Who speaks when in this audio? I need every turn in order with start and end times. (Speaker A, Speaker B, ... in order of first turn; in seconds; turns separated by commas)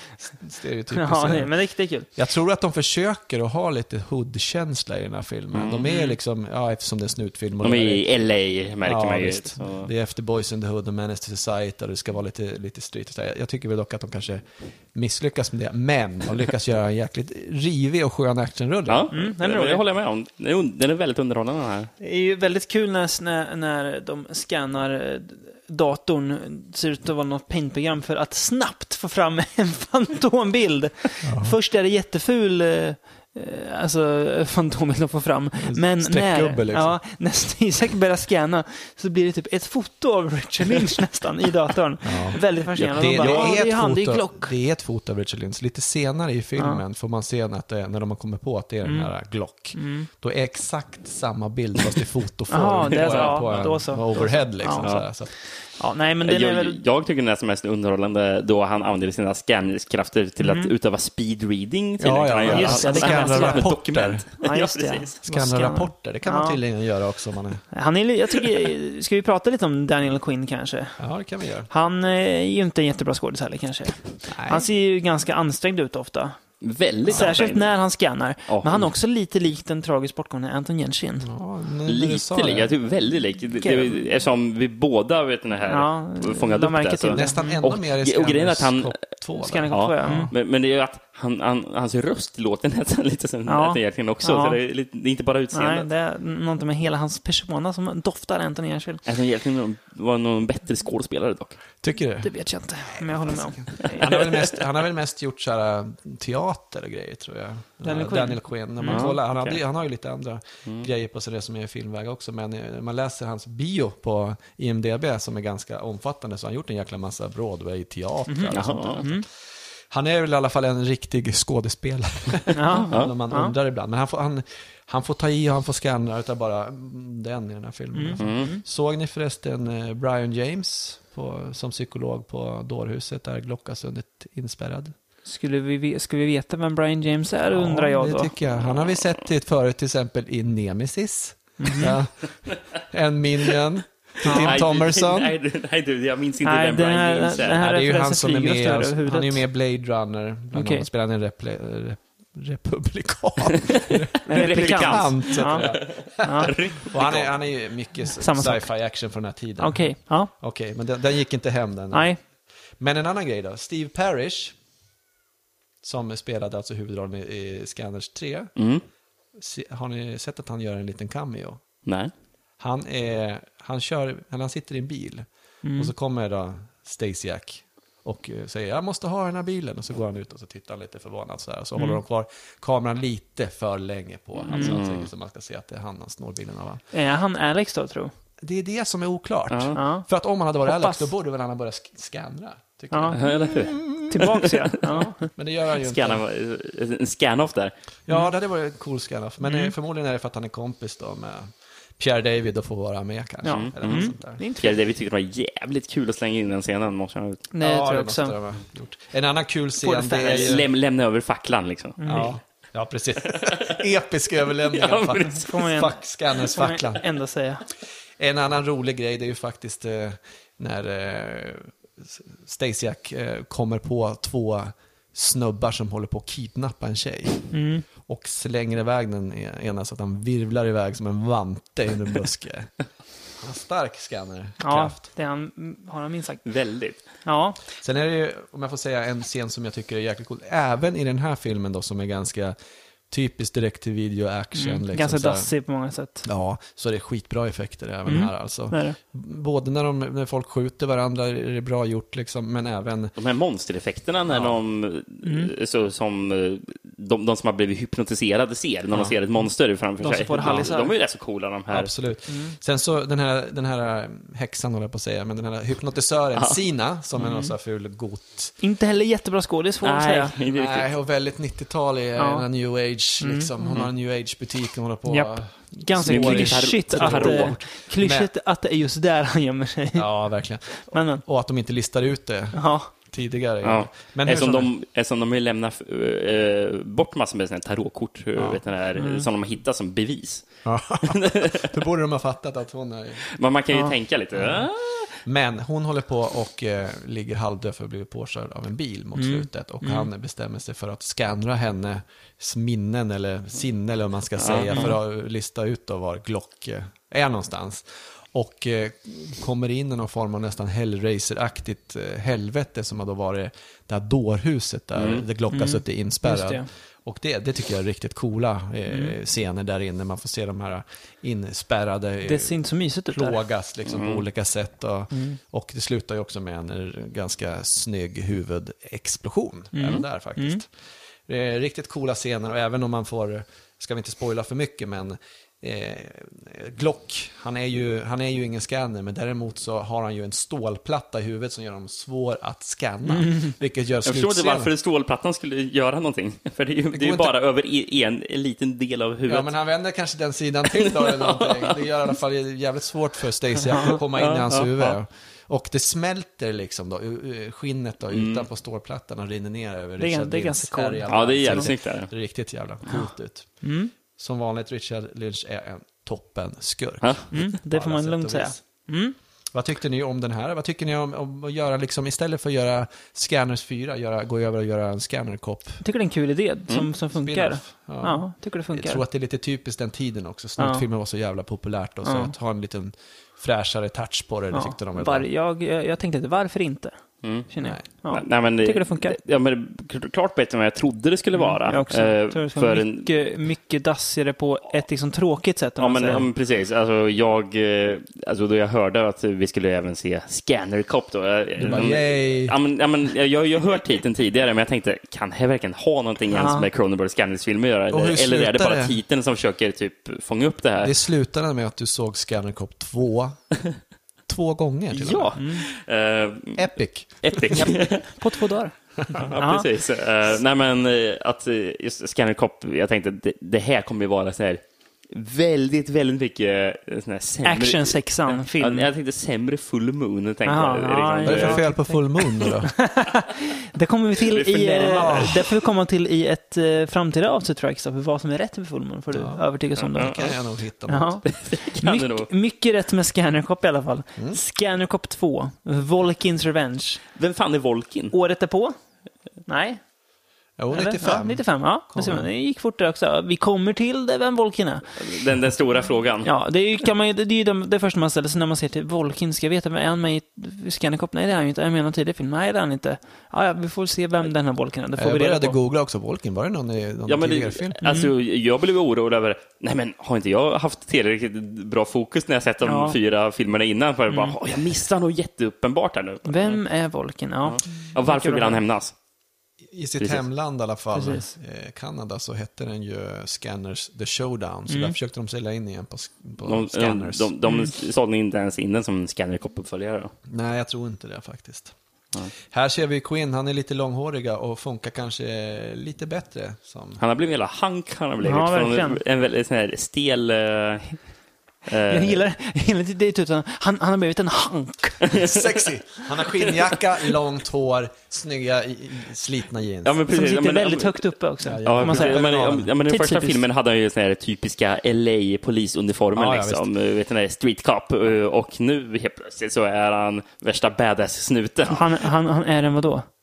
Speaker A: 0.2-1.6, Speaker B: 0.9-2.1, Speaker A: 2.1-8.0, Speaker C: 5.5-6.1, Speaker C: 7.6-9.9, Speaker A: 8.8-19.1, Speaker C: 18.9-21.9, Speaker B: 19.1-19.8, Speaker B: 22.0-44.5, Speaker A: 31.2-31.6, Speaker A: 35.6-37.0, Speaker A: 42.0-55.3, Speaker C: 42.8-43.5, Speaker B: 48.9-49.1, Speaker B: 49.7-50.1, Speaker B: 52.5-54.9, Speaker C: 53.0-53.5, Speaker B: 55.8-56.8, Speaker C: 56.2-65.2, Speaker B: 60.4-60.7, Speaker A: 62.0-64.2, Speaker B: 62.5-63.7, Speaker B: 64.4-66.6, Speaker A: 65.2-67.6, Speaker B: 67.7-71.0, Speaker A: 71.0-71.7, Speaker B: 71.7-76.4, Speaker A: 74.3-74.7, Speaker C: 76.6-77.7, Speaker B: 77.1-81.3, Speaker C: 78.5-78.9, Speaker A: 81.2-82.7, Speaker C: 81.9-89.0, Speaker B: 83.6-84.0, Speaker B: 85.7-87.6, Speaker A: 87.1-90.3, Speaker B: 89.4-90.3, Speaker C: 89.7-95.9, Speaker B: 93.5-94.6, Speaker B: 95.5-99.0, Speaker C: 99.1-101.5, Speaker A: 101.8-102.3, Speaker B: 102.2-104.3, Speaker A: 102.9-119.2, Speaker B: 107.8-109.1, Speaker C: 108.9-109.6, Speaker B: 118.3-119.2, Speaker C: 118.5-119.0, Speaker A: 119.9-134.9, Speaker B: 122.5-123.5, Speaker B: 127.9-128.6, Speaker C: 128.2-128.5, Speaker B: 135.2-138.3, Speaker A: 137.5-145.4, Speaker B: 141.6-141.9, Speaker B: 144.2-144.6, Speaker C: 144.3-147.6, Speaker B: 146.4-149.4, Speaker A: 147.6-162.1, Speaker B: 150.5-150.9, Speaker C: 154.2-157.3, Speaker B: 154.3-156.5, Speaker B: 158.2-158.7, Speaker B: 159.6-160.3, Speaker B: 161.9-162.2, Speaker A: 162.8-164.6, Speaker A: 165.8-168.5, Speaker C: 168.6-168.8, Speaker A: 169.4-171.6, Speaker C: 171.9-172.1, Speaker A: 172.6-186.8, Speaker B: 175.6-175.9, Speaker C: 184.4-185.1, Speaker B: 184.5-184.8, Speaker B: 186.9-188.1, Speaker A: 188.4-194.4, Speaker C: 189.5-189.8, Speaker B: 189.7-190.1, Speaker B: 190.6-191.1, Speaker B: 192.9-193.3, Speaker C: 193.1-194.7, Speaker B: 194.1-195.3, Speaker A: 195.0-196.2, Speaker C: 195.8-197.7, Speaker A: 198.1-204.4, Speaker B: 203.4-204.8, Speaker C: 203.5-207.5, Speaker B: 207.5-208.4, Speaker A: 207.6-210.7, Speaker B: 209.8-210.6, Speaker C: 210.2-212.3, Speaker B: 212.0-212.3, Speaker A: 212.1-217.0, Speaker C: 213.3-213.8, Speaker C: 214.7-215.5, Speaker B: 215.2-217.7, Speaker A: 218.2-232.7, Speaker B: 227.5-227.8, Speaker A: 233.4-235.0, Speaker B: 234.6-236.4, Speaker C: 236.4-237.0, Speaker B: 237.2-237.6, Speaker A: 237.8-242.6, Speaker A: 243.1-245.5, Speaker B: 244.6-246.3, Speaker A: 246.2-253.2, Speaker B: 248.1-249.0, Speaker C: 253.2-261.9, Speaker A: 254.3-254.6, Speaker B: 255.2-255.5, Speaker B: 260.0-260.9, Speaker A: 260.4-260.7, Speaker A: 261.7-268.6, Speaker B: 262.3-262.6, Speaker B: 267.2-267.5, Speaker B: 268.6-270.3, Speaker C: 269.8-270.9, Speaker A: 270.5-278.3, Speaker B: 272.2-272.5, Speaker B: 273.2-273.5, Speaker B: 275.1-280.1, Speaker C: 276.1-277.6, Speaker A: 279.9-284.7, Speaker B: 280.9-281.2, Speaker B: 282.5-282.9, Speaker C: 283.6-290.5, Speaker B: 289.0-289.3, Speaker A: 290.6-293.2, Speaker C: 291.1-291.7, Speaker C: 293.3-295.2, Speaker A: 294.4-294.7, Speaker A: 295.2-322.6, Speaker B: 299.1-300.1, Speaker C: 304.4-305.0, Speaker C: 315.0-315.2, Speaker B: 315.5-316.7, Speaker B: 318.9-319.1, Speaker B: 322.2-323.4, Speaker A: 323.1-330.7, Speaker C: 323.9-324.2, Speaker B: 325.1-325.4, Speaker B: 329.7-330.6, Speaker A: 331.3-344.7, Speaker C: 344.0-349.5, Speaker A: 346.9-347.4, Speaker A: 349.3-363.5, Speaker C: 350.7-351.8, Speaker C: 354.1-355.0, Speaker C: 358.1-358.4, Speaker B: 360.0-361.7, Speaker C: 361.1-362.1, Speaker B: 363.6-363.9, Speaker A: 364.2-368.6, Speaker C: 367.0-367.3, Speaker B: 367.3-369.2, Speaker A: 369.5-375.8, Speaker B: 375.8-379.0, Speaker A: 377.1-385.3, Speaker B: 380.6-380.8, Speaker B: 382.0-382.3, Speaker B: 384.5-387.0, Speaker C: 387.2-393.1, Speaker B: 387.5-389.2, Speaker B: 391.4-396.3, Speaker C: 395.8-411.0, Speaker A: 401.6-402.6, Speaker B: 406.3-406.7, Speaker A: 407.9-409.0, Speaker A: 410.8-413.4, Speaker A: 414.3-415.4, Speaker C: 414.9-416.7, Speaker B: 415.4-415.6, Speaker A: 416.6-417.7, Speaker C: 417.2-418.1, Speaker B: 417.5-418.8, Speaker A: 419.0-419.2, Speaker C: 419.1-431.6, Speaker B: 419.3-419.7, Speaker B: 427.4-428.9, Speaker B: 430.5-440.2, Speaker A: 431.2-432.8, Speaker C: 434.2-435.2, Speaker A: 434.9-435.5, Speaker A: 439.1-439.4, Speaker C: 439.8-440.4, Speaker A: 439.9-441.2, Speaker B: 440.9-447.0, Speaker C: 441.3-442.3, Speaker C: 447.2-448.1, Speaker B: 448.1-448.8, Speaker B: 449.5-449.8, Speaker A: 450.6-452.3, Speaker B: 450.7-455.0, Speaker C: 455.0-456.3, Speaker B: 456.2-465.6, Speaker A: 465.0-467.8, Speaker C: 467.1-476.6, Speaker B: 467.8-468.1, Speaker B: 472.6-473.0, Speaker B: 474.1-474.4, Speaker B: 476.3-478.6, Speaker C: 477.4-478.9, Speaker A: 479.7-487.3, Speaker B: 480.9-481.3, Speaker B: 484.7-484.9, Speaker C: 486.4-490.1, Speaker A: 490.3-491.8, Speaker A: 492.5-497.0, Speaker C: 497.0-501.0, Speaker B: 498.2-499.0, Speaker C: 501.7-502.2, Speaker B: 501.9-505.2, Speaker C: 505.1-505.5, Speaker A: 505.1-510.0, Speaker C: 509.8-511.1, Speaker B: 510.1-512.3, Speaker A: 511.4-512.7, Speaker C: 511.6-521.9, Speaker B: 512.9-513.4, Speaker A: 516.1-516.6, Speaker B: 521.7-523.1